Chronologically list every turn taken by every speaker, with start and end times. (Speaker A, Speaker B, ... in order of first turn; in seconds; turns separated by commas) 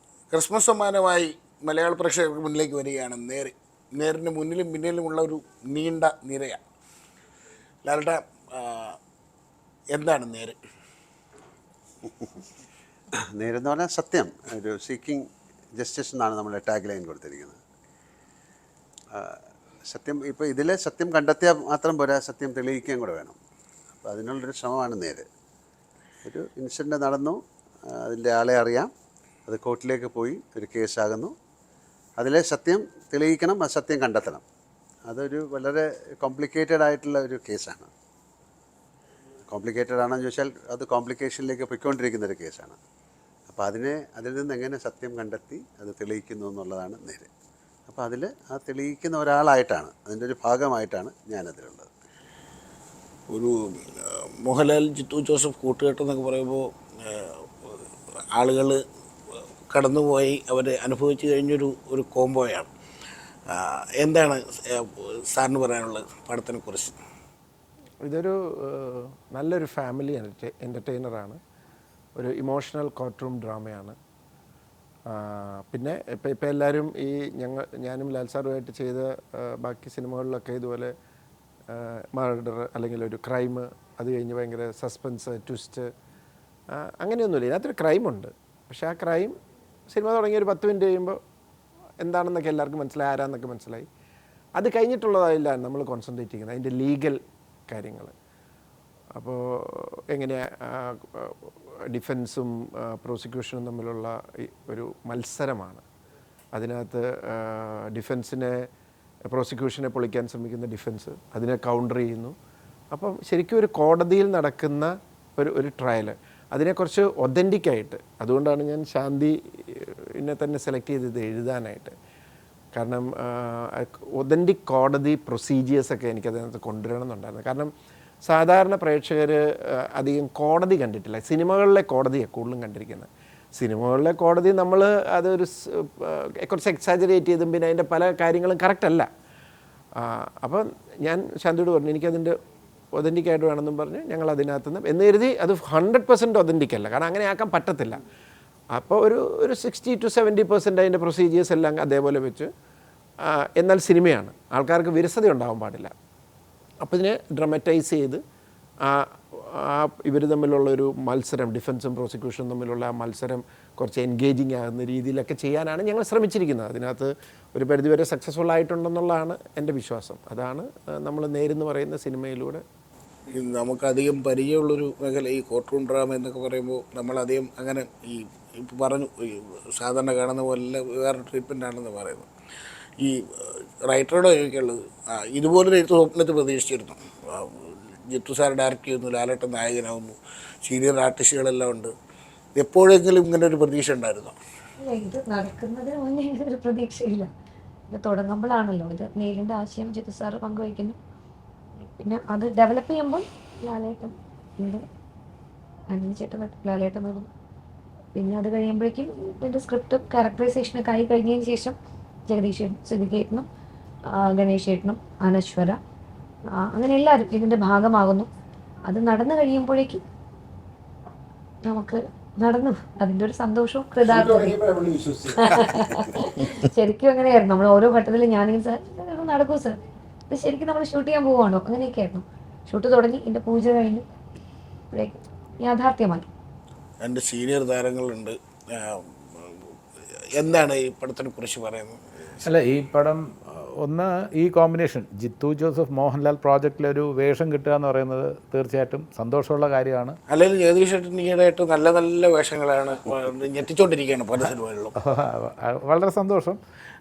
Speaker A: 0.3-6.6, Speaker A: 7.8-9.0, Speaker A: 9.9-10.6, Speaker B: 13.3-17.6, Speaker B: 19.1-23.4, Speaker B: 24.0-25.2, Speaker B: 26.2-28.9, Speaker B: 29.5-31.3, Speaker B: 32.2-34.4, Speaker B: 35.1-37.9, Speaker B: 39.5-42.8, Speaker B: 43.5-47.3, Speaker B: 47.9-51.9, Speaker A: 53.3-57.7, Speaker A: 58.3-58.8, Speaker A: 59.7-62.7, Speaker A: 63.5-67.0, Speaker C: 68.0-71.4, Speaker C: 72.2-74.0, Speaker C: 75.1-80.9, Speaker C: 81.7-85.9, Speaker C: 86.7-89.4, Speaker C: 89.9-91.2, Speaker C: 92.0-93.9, Speaker C: 94.6-98.1, Speaker C: 99.2-105.8, Speaker C: 106.5-108.7, Speaker C: 109.3-112.3, Speaker C: 112.9-121.9, Speaker C: 122.7-127.7, Speaker C: 128.2-139.1, Speaker C: 139.9-142.4, Speaker C: 142.9-148.0, Speaker C: 148.7-152.5, Speaker C: 153.2-155.9, Speaker C: 156.8-158.2, Speaker C: 158.8-172.6, Speaker A: 173.3-182.3, Speaker A: 183.0-191.9, Speaker A: 192.6-194.3, Speaker D: 194.8-197.3, Speaker D: 197.9-201.0, Speaker D: 201.8-204.8, Speaker D: 205.9-207.3, Speaker D: 208.1-213.4, Speaker D: 214.1-215.8, Speaker D: 216.5-218.3, Speaker D: 218.9-220.0, Speaker D: 221.6-224.6, Speaker C: 224.1-225.9, Speaker D: 225.3-229.8, Speaker D: 230.3-234.0, Speaker D: 234.9-236.3, Speaker A: 237.0-242.4, Speaker E: 242.4-250.2, Speaker A: 250.3-254.9, Speaker E: 255.0-256.6